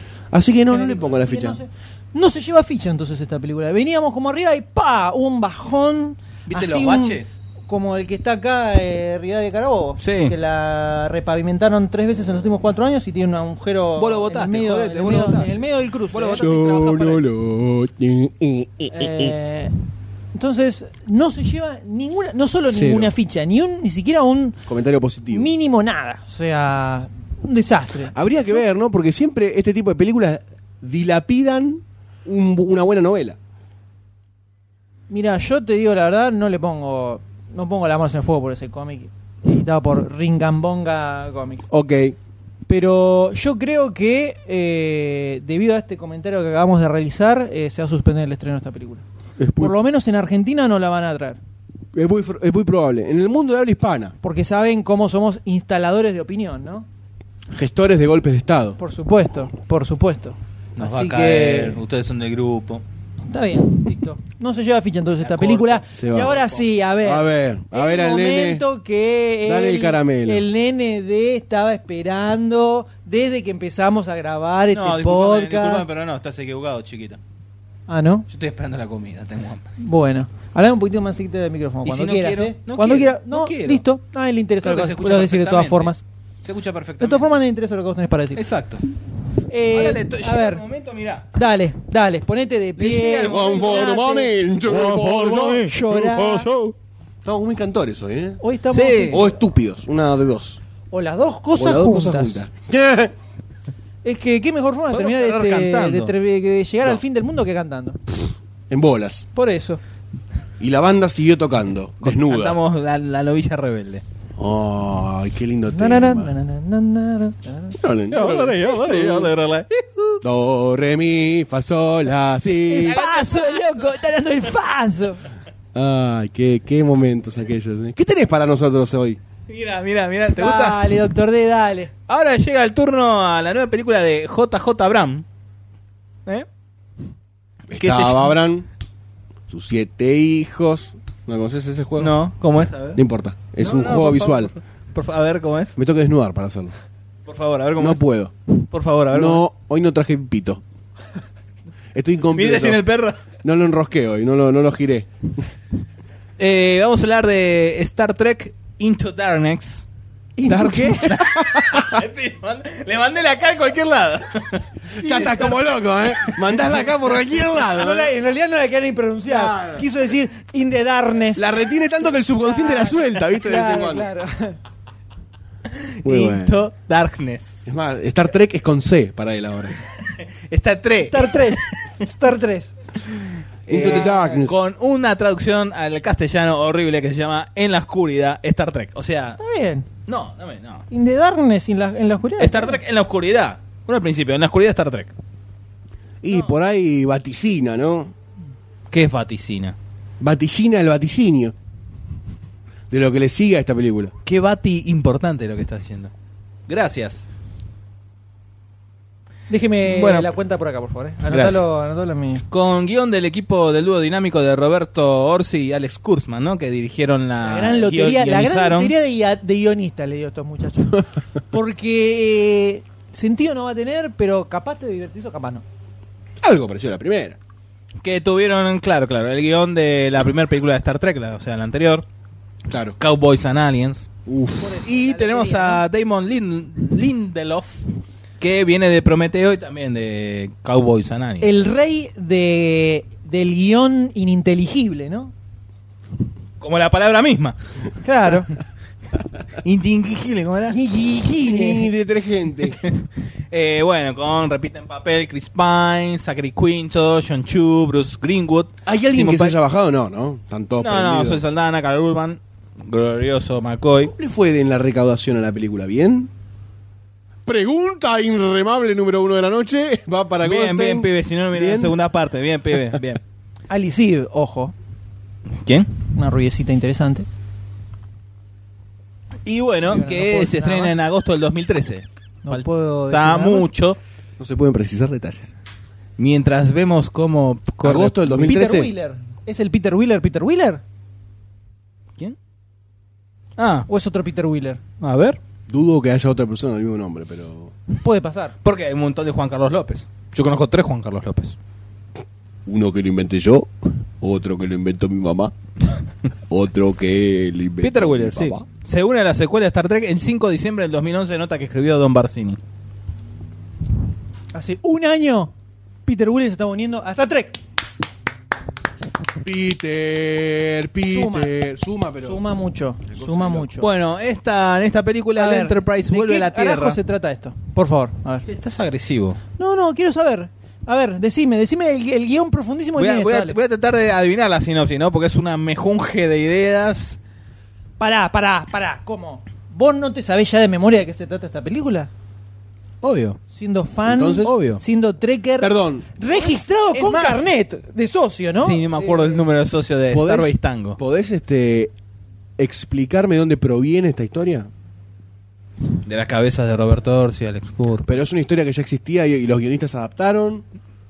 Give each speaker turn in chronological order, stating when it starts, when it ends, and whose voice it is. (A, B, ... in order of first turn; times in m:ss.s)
0:00.3-0:01.6 A
0:00.7-0:16.5 B
0:06.5-0:07.3 C
0:10.0-0:10.4 C
0:14.0-0:15.6 C
0:16.1-0:17.2 C
0:16.3-0:19.4 A
0:18.9-0:19.7 B
0:20.3-0:24.6 B
0:22.7-0:23.1 A
0:24.7-0:25.5 A
0:25.3-0:28.6 B
0:28.1-0:33.4 A
0:35.1-0:41.6 B
0:41.7-0:42.2 A
0:42.7-0:49.0 B
0:49.4-0:49.8 A
0:49.6-0:51.4 B
0:51.9-0:54.2 A
0:54.2-0:56.9 B
0:57.5-0:58.8 A
0:58.8-1:01.8 B
1:00.8-1:02.8 C
1:03.3-1:15.9 B
1:05.2-1:06.6 C
1:06.0-1:06.4 A
1:07.0-1:08.6 A
1:09.4-1:10.4 A
1:14.7-1:17.2 C
1:17.9-1:18.3 B
1:18.3-1:19.7 C
1:19.8-1:26.0 B
1:21.8-1:23.8 C
1:24.6-1:27.3 C
1:27.0-1:28.4 B
1:28.4-1:28.8 C
1:29.5-1:30.6 B
1:29.7-1:31.3 C
1:31.3-1:34.3 B
1:32.8-1:34.0 C
1:33.3-1:35.8 A
1:34.7-1:35.6 C
1:35.6-1:36.5 B
1:36.2-1:36.7 C
1:37.2-1:38.4 A
1:38.4-1:39.2 B
1:38.7-1:39.2 C
1:39.1-1:40.6 A
1:40.9-1:42.4 B
1:41.6-1:43.1 A
1:44.0-1:48.0 B
1:44.9-1:46.1 C
1:48.7-1:49.3 A
1:49.4-1:49.8 B
1:50.6-1:52.6 A
1:52.0-1:54.0 C
1:54.4-1:56.3 A
1:55.7-1:57.8 B
1:57.8-1:59.3 A
1:58.1-2:00.2 C
2:00.2-2:03.0 A
2:02.7-2:05.2 B
2:02.8-2:03.9 C
2:05.7-2:09.2 A
2:09.5-2:11.0 C
2:10.4-2:11.9 B
2:12.1-2:15.2 C
2:17.7-2:18.7 A
2:17.7-2:18.4 C
2:19.5-2:22.2 A
2:22.0-2:23.0 C
2:23.0-2:24.5 A
2:23.6-2:25.8 C
2:25.8-2:26.7 A
2:27.3-2:28.0 C
2:27.8-2:28.3 A
2:28.7-2:29.4 C
2:29.1-2:30.6 A
2:31.9-2:32.8 A
2:32.3-2:33.2 C
2:33.4-2:35.4 A
2:36.4-2:39.8 C
2:40.4-2:41.1 B
2:40.5-2:42.0 A
2:41.0-2:44.8 C
2:45.0-2:45.6 B
2:45.0-2:48.1 A
2:46.2-2:46.7 C
2:47.6-2:51.6 B
2:49.3-2:49.8 A
2:51.4-2:54.1 A
2:52.2-2:54.6 B
2:55.7-2:57.7 C
2:56.0-2:56.6 A
2:57.7-2:59.8 A
3:00.0-3:01.8 C
3:01.1-3:02.8 B
3:03.7-3:04.6 A
3:03.7-3:04.5 B
3:03.7-3:09.4 C
3:09.4-3:09.9 B
3:10.1-3:10.8 C
3:10.9-3:12.8 B
3:12.4-3:15.2 C
3:16.2-3:18.1 A
3:18.9-3:19.8 C
3:20.2-3:21.5 A
3:22.9-3:24.1 A
3:24.2-3:26.1 C
3:26.7-3:27.3 C
3:29.5-3:32.4 B
3:29.8-3:30.3 C
3:31.3-3:31.6 C
3:32.5-3:38.9 C
3:37.4-3:45.6 B
3:46.4-3:47.4 A
3:48.0-3:52.0 C
3:52.7-3:53.0 A
3:53.0-3:54.1 C
3:54.3-3:54.7 A
3:54.6-3:55.8 B
3:54.8-3:57.8 C
3:58.4-4:01.5 C
4:01.4-4:05.3 B
4:06.6-4:07.6 C
4:08.0-4:08.5 B
4:09.6-4:10.8 C
4:10.7-4:11.9 B
4:11.4-4:12.8 A
4:12.8-4:19.6 C
4:18.8-4:21.4 A
4:20.8-4:24.1 C
4:24.0-4:26.3 A
4:27.4-4:32.0 A
4:30.4-4:33.2 C
4:33.7-4:34.7 B
4:35.6-4:35.9 C
4:36.1-4:37.3 B
4:39.4-4:44.0 C
4:39.9-4:41.0 B
4:42.4-4:43.7 B
4:44.4-4:45.5 A
4:46.2-4:48.5 C
4:47.8-4:48.9 A
4:48.4-4:50.8 B
4:53.6-4:53.9 C
4:53.9-4:54.8 B
4:55.0-4:55.4 C
4:55.7-4:57.7 A
4:58.0-4:58.6 B
4:58.6-5:01.6 C
5:02.7-5:05.5 A
5:06.5-5:08.6 A
5:07.8-5:12.6 C
5:14.5-5:15.5 B
5:16.1-5:17.6 B
5:19.4-5:22.4 A
5:21.1-5:21.6 B
5:22.2-5:23.9 B
5:23.1-5:23.7 A
5:23.8-5:27.0 C
5:25.4-5:28.4 B
5:28.5-5:29.4 C
5:29.6-5:33.6 B
5:33.0-5:37.2 C
5:38.0-5:42.1 B
5:43.0-5:43.4 C
5:43.5-5:49.4 B
5:44.1-5:44.6 A
5:44.4-5:44.8 C
5:45.6-5:46.1 A
5:46.4-5:47.5 C
5:48.6-5:51.0 C
5:50.1-5:51.9 A
5:52.6-5:54.7 A
5:56.0-5:58.1 C
5:58.0-6:00.6 A